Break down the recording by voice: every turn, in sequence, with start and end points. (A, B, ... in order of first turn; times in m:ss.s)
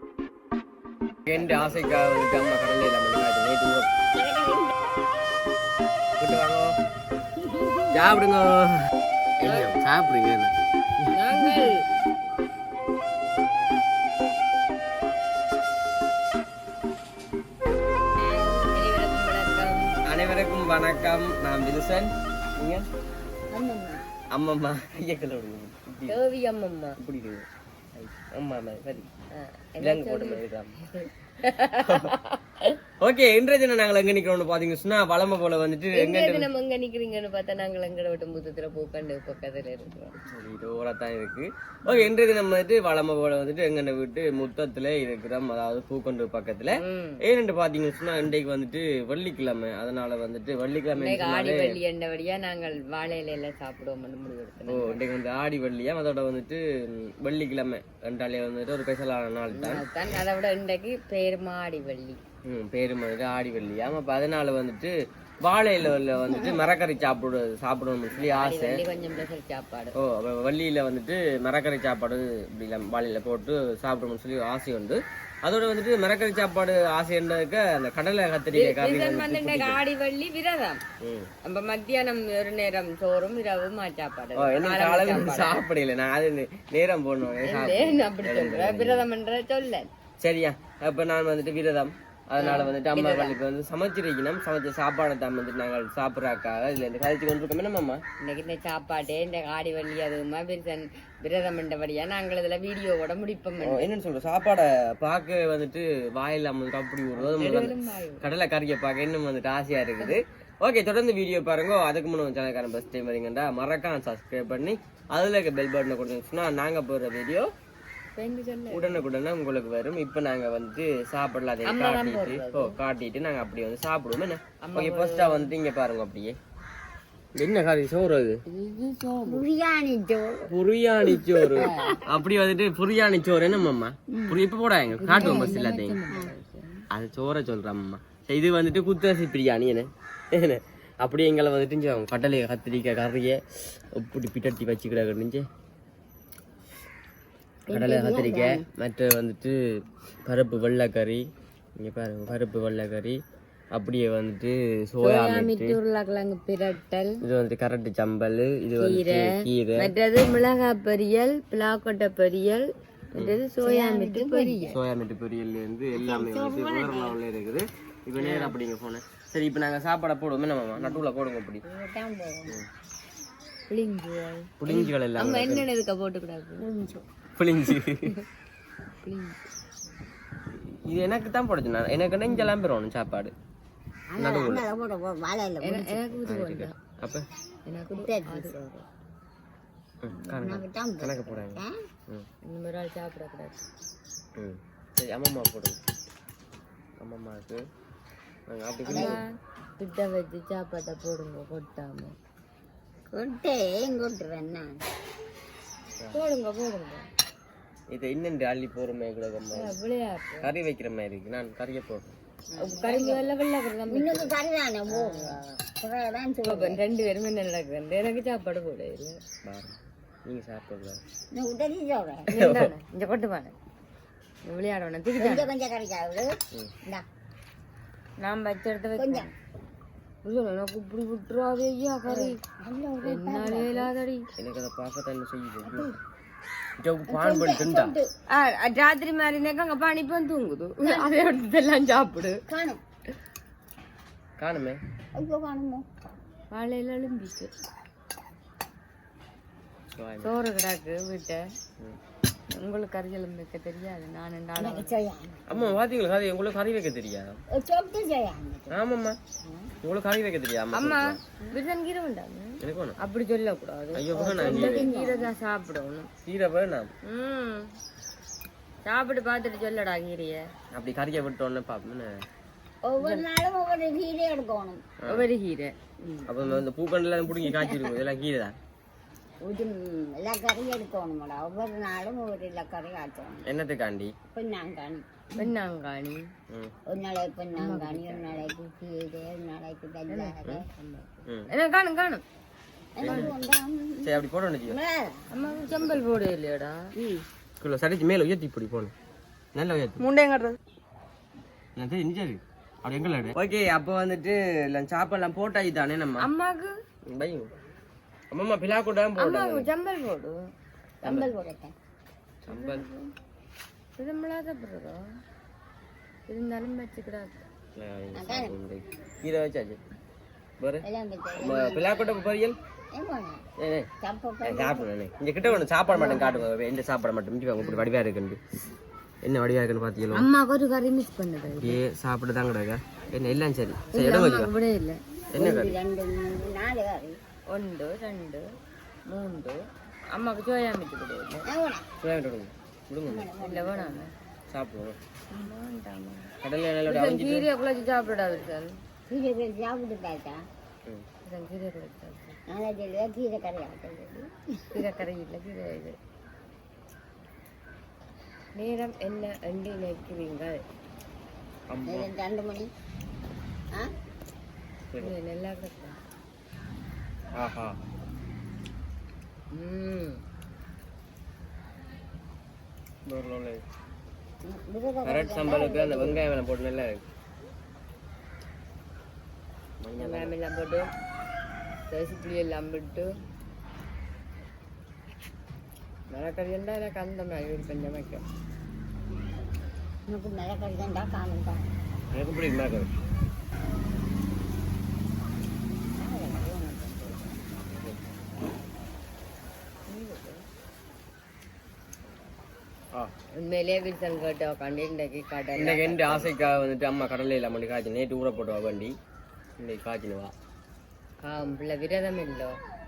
0:01.2-0:03.9 A
0:04.1-0:04.8 B
0:06.2-0:06.7 A
0:07.4-0:08.1 B
0:07.9-0:08.7 A
0:09.4-0:11.6 A
0:09.4-0:09.7 C
0:11.1-0:11.8 C
0:18.2-0:20.0 C
0:20.0-0:22.9 A
0:23.5-0:24.0 B
0:24.3-0:26.2 A
0:26.1-0:27.0 C
0:27.0-0:29.1 A
0:29.3-0:30.4 C
0:29.8-0:30.7 A
0:31.0-0:32.8 C
0:31.8-0:32.1 A
0:33.0-0:36.5 A
0:35.9-0:40.2 C
0:40.3-0:51.8 A
0:46.7-0:47.2 C
0:50.9-0:55.0 C
0:54.6-0:59.8 A
0:59.5-1:02.2 C
1:02.4-1:08.8 A
1:08.1-1:10.0 C
1:10.0-1:19.8 A
1:18.5-1:20.8 C
1:21.0-1:21.3 A
1:21.4-1:25.6 C
1:24.4-1:29.0 A
1:27.4-1:29.9 C
1:30.2-1:38.0 A
1:32.4-1:33.4 C
1:38.2-1:43.8 C
1:43.6-1:57.5 A
1:47.2-1:48.2 C
1:58.2-1:59.0 C
1:58.7-2:06.4 A
2:01.6-2:02.8 C
2:04.6-2:05.5 C
2:07.4-2:08.4 A
2:08.5-2:09.4 C
2:09.2-2:10.5 B
2:10.5-2:16.0 A
2:11.0-2:12.0 B
2:11.5-2:12.0 C
2:14.1-2:14.4 B
2:15.0-2:16.8 C
2:15.2-2:15.6 B
2:16.9-2:23.4 A
2:23.9-2:25.4 A
2:27.6-2:28.7 B
2:27.7-2:29.6 A
2:30.2-2:31.2 A
2:31.8-2:33.2 A
2:33.7-2:35.8 A
2:35.0-2:37.2 C
2:37.2-2:39.9 A
2:38.8-2:44.8 C
2:43.1-2:43.4 A
2:43.6-2:44.7 B
2:44.7-2:51.6 A
2:45.9-2:47.2 B
2:48.2-2:48.6 C
2:51.6-2:52.6 B
2:53.7-2:56.7 C
2:54.6-2:55.7 A
2:56.6-2:57.0 B
2:57.4-2:58.1 A
2:59.0-2:59.4 C
3:00.5-3:03.3 A
3:04.1-3:06.2 B
3:04.2-3:04.6 A
3:05.6-3:06.8 C
3:06.2-3:07.3 A
3:07.7-3:08.8 C
3:07.9-3:08.6 B
3:10.0-3:12.2 A
3:10.3-3:11.7 B
3:12.4-3:13.6 C
3:14.4-3:15.8 A
3:17.0-3:17.6 A
3:18.5-3:19.2 A
3:18.8-3:19.2 B
3:18.9-3:19.2 C
3:19.8-3:22.1 C
3:23.1-3:24.8 B
3:26.1-3:27.1 C
3:27.9-3:29.7 A
3:29.5-3:30.5 C
3:30.4-3:32.1 A
3:32.5-3:34.3 C
3:32.6-3:33.3 B
3:33.9-3:36.8 B
3:34.9-3:35.4 C
3:36.4-3:39.2 C
3:39.4-3:41.0 A
3:41.3-3:42.3 B
3:42.3-3:43.5 C
3:42.4-3:42.7 A
3:44.4-3:45.5 C
3:45.2-3:46.3 B
3:48.2-3:49.3 C
3:49.0-3:49.3 B
3:50.2-3:52.4 C
3:52.0-3:53.9 B
3:53.0-3:54.2 C
3:54.4-3:55.9 A
3:55.6-3:56.0 B
3:56.8-3:57.9 A
3:57.1-3:58.1 B
3:58.3-4:02.4 C
4:00.8-4:01.1 B
4:02.5-4:02.8 B
4:04.4-4:04.8 A
4:05.1-4:05.8 B
4:06.5-4:07.5 C
4:10.0-4:10.3 A
4:10.2-4:11.4 C
4:12.6-4:14.9 C
4:14.6-4:15.6 B
4:15.5-4:17.4 A
4:17.5-4:18.8 B
4:18.7-4:19.2 A
4:19.4-4:19.7 B
4:19.8-4:21.2 A
4:20.7-4:26.1 C
4:22.6-4:23.0 A
4:24.0-4:24.9 A
4:24.1-4:25.3 B
4:26.2-4:26.9 A
4:27.0-4:27.7 C
4:28.8-4:30.4 C
4:30.7-4:32.1 A
4:32.8-4:34.8 B
4:33.0-4:33.2 C
4:35.0-4:35.3 A
4:35.1-4:35.7 C
4:36.0-4:36.6 B
4:36.3-4:38.6 A
4:37.3-4:38.0 B
4:39.4-4:43.5 B
4:43.4-4:44.1 A
4:44.3-4:45.5 B
4:45.3-4:46.3 C
4:46.9-4:50.7 B
4:47.6-4:48.4 C
4:50.1-4:52.2 C
4:53.0-4:54.1 B
4:53.0-4:53.4 A
4:53.0-4:53.4 C
4:54.0-4:54.8 A
4:54.6-4:55.3 B
4:55.3-4:56.9 C
4:55.7-4:56.0 A
4:57.0-4:57.2 B
4:57.6-4:58.9 A
4:59.5-5:00.0 A
5:00.0-5:00.6 C
5:01.8-5:06.3 A
5:06.2-5:06.8 C
5:07.0-5:07.5 A
5:08.3-5:09.7 A
5:09.2-5:10.4 C
5:11.0-5:11.7 B
5:11.0-5:11.3 A
5:12.4-5:12.8 A
5:12.4-5:13.1 C
5:14.0-5:15.0 C
5:16.3-5:17.4 C
5:17.8-5:19.8 A
5:18.1-5:18.6 B
5:20.8-5:21.9 B
5:21.4-5:22.6 A
5:22.9-5:23.4 B
5:23.6-5:23.9 A
5:24.0-5:24.9 B
5:24.4-5:28.4 A
5:25.5-5:26.4 C
5:27.6-5:27.9 C
5:29.2-5:30.3 A
5:30.1-5:31.8 C
5:31.6-5:34.5 A
5:33.9-5:35.0 C
5:35.3-5:35.8 A
5:35.3-5:37.2 B
5:37.5-5:38.4 C
5:39.1-5:39.6 C
5:40.1-5:41.4 C
5:41.5-5:41.9 B
5:42.0-5:43.3 A
5:43.0-5:44.0 B
5:43.4-5:44.1 C
5:44.5-5:45.0 A
5:45.4-5:46.3 C
5:46.4-5:47.5 A
5:46.8-5:48.8 C
5:49.1-5:50.4 B
5:51.2-5:52.4 C
5:52.5-5:54.7 B
5:54.7-5:56.0 C
5:58.6-6:00.6 C
6:01.7-6:02.1 A
6:01.8-6:02.7 B
6:05.0-6:06.0 C
6:07.4-6:07.8 A
6:09.5-6:10.2 C
6:13.0-6:13.6 A
6:14.4-6:16.2 B
6:15.0-6:17.0 A
6:19.8-6:20.3 A
6:20.0-6:20.9 C
6:21.9-6:23.1 C
6:26.1-6:28.2 C
6:30.1-6:31.7 B
6:32.1-6:32.9 A
6:36.0-6:37.4 B
6:37.7-6:38.0 A
6:39.9-6:40.4 C
6:43.3-6:46.4 C
6:45.6-6:49.0 A
6:49.6-6:50.3 A
6:51.2-6:52.6 C